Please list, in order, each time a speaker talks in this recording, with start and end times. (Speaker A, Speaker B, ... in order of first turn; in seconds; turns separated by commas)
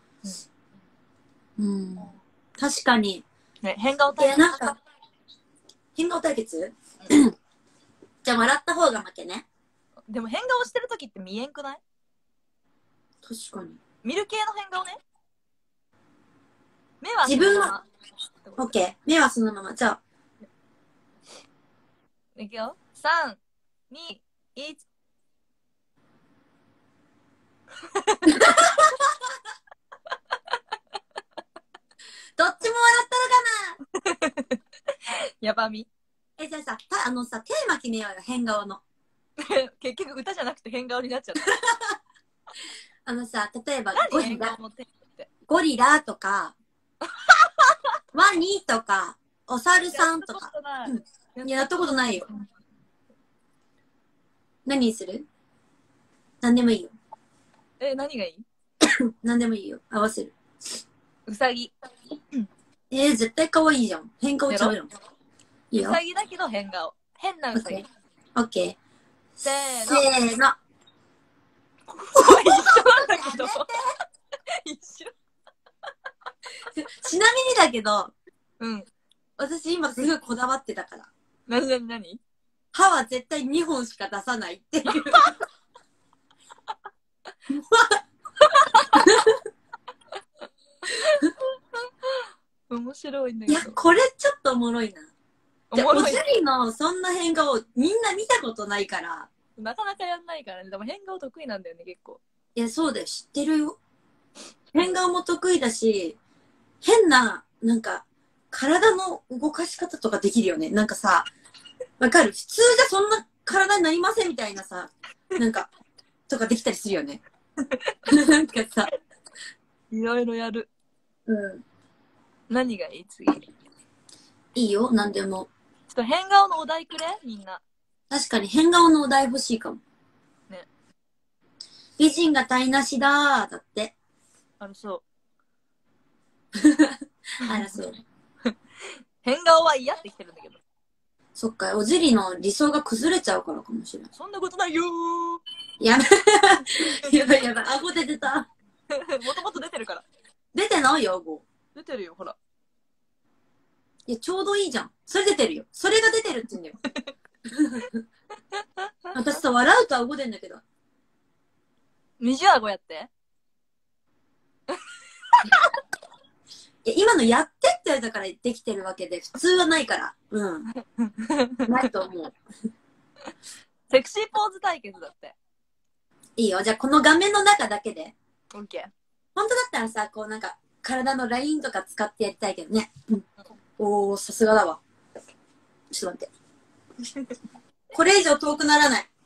Speaker A: 1.6-3.2, Speaker B: 3.6-4.7, Speaker A: 4.2-4.8, Speaker A: 6.0-7.3, Speaker A: 8.2-9.4, Speaker B: 10.1-11.8, Speaker A: 13.2-13.8, Speaker B: 14.0-15.0, Speaker B: 17.0-17.9, Speaker A: 17.2-17.7, Speaker B: 18.4-18.8, Speaker A: 18.6-20.0, Speaker B: 22.4-24.8, Speaker B: 27.9-28.7, Speaker A: 28.3-29.1, Speaker A: 32.4-33.8, Speaker B: 33.9-35.9, Speaker A: 36.4-38.8, Speaker B: 39.4-41.6, Speaker A: 41.5-41.9, Speaker A: 43.0-44.5, Speaker B: 43.9-45.3, Speaker A: 45.5-46.5, Speaker B: 47.1-47.8, Speaker A: 48.1-52.2, Speaker B: 49.9-52.4, Speaker A: 54.6-55.2, Speaker A: 56.4-56.9, Speaker B: 57.8-58.5, Speaker A: 58.8-60.4, Speaker B: 61.3-61.7, Speaker A: 62.9-64.9, Speaker B: 64.5-64.8, Speaker A: 65.7-66.0, Speaker B: 65.8-67.8, Speaker A: 67.5-67.8, Speaker A: 68.3-68.8, Speaker B: 69.4-70.1, Speaker A: 69.8-70.5, Speaker B: 71.9-73.7, Speaker A: 72.1-73.8, Speaker B: 74.5-75.1, Speaker A: 76.7-78.1, Speaker B: 78.6-78.9, Speaker A: 79.4-81.1, Speaker B: 81.5-82.2, Speaker A: 82.7-85.3, Speaker B: 84.9-85.4, Speaker A: 87.5-88.0, Speaker B: 88.4-89.1, Speaker A: 88.9-89.4, Speaker B: 90.8-91.4, Speaker B: 92.0-93.8, Speaker A: 93.5-95.1, Speaker B: 95.7-96.2, Speaker A: 95.7-99.3, Speaker B: 99.6-102.2, Speaker A: 102.5-103.8, Speaker A: 104.7-106.2, Speaker A: 106.8-111.3, Speaker A: 112.0-115.7, Speaker A: 116.3-117.2, Speaker B: 117.7-118.0, Speaker A: 118.1-118.9, Speaker B: 119.9-120.7, Speaker A: 121.3-121.6, Speaker B: 122.5-123.5, Speaker A: 124.5-125.5, Speaker B: 125.9-127.6, Speaker A: 128.1-129.8, Speaker A: 132.0-133.9, Speaker B: 134.6-135.0, Speaker A: 136.5-138.0, Speaker B: 139.2-140.6, Speaker A: 141.3-144.1, Speaker B: 144.1-145.4, Speaker A: 145.8-148.5, Speaker B: 148.9-150.1, Speaker A: 150.5-151.4, Speaker B: 151.7-152.4, Speaker A: 154.1-156.8, Speaker A: 157.5-158.0, Speaker A: 159.1-160.6, Speaker B: 162.2-163.1, Speaker B: 165.3-165.7, Speaker A: 166.8-170.7, Speaker B: 171.0-171.7, Speaker A: 171.6-172.3, Speaker B: 173.9-175.3, Speaker A: 176.4-178.1, Speaker B: 178.5-178.9, Speaker A: 179.3-183.2, Speaker A: 183.8-184.8, Speaker A: 185.9-186.3, Speaker A: 187.9-189.1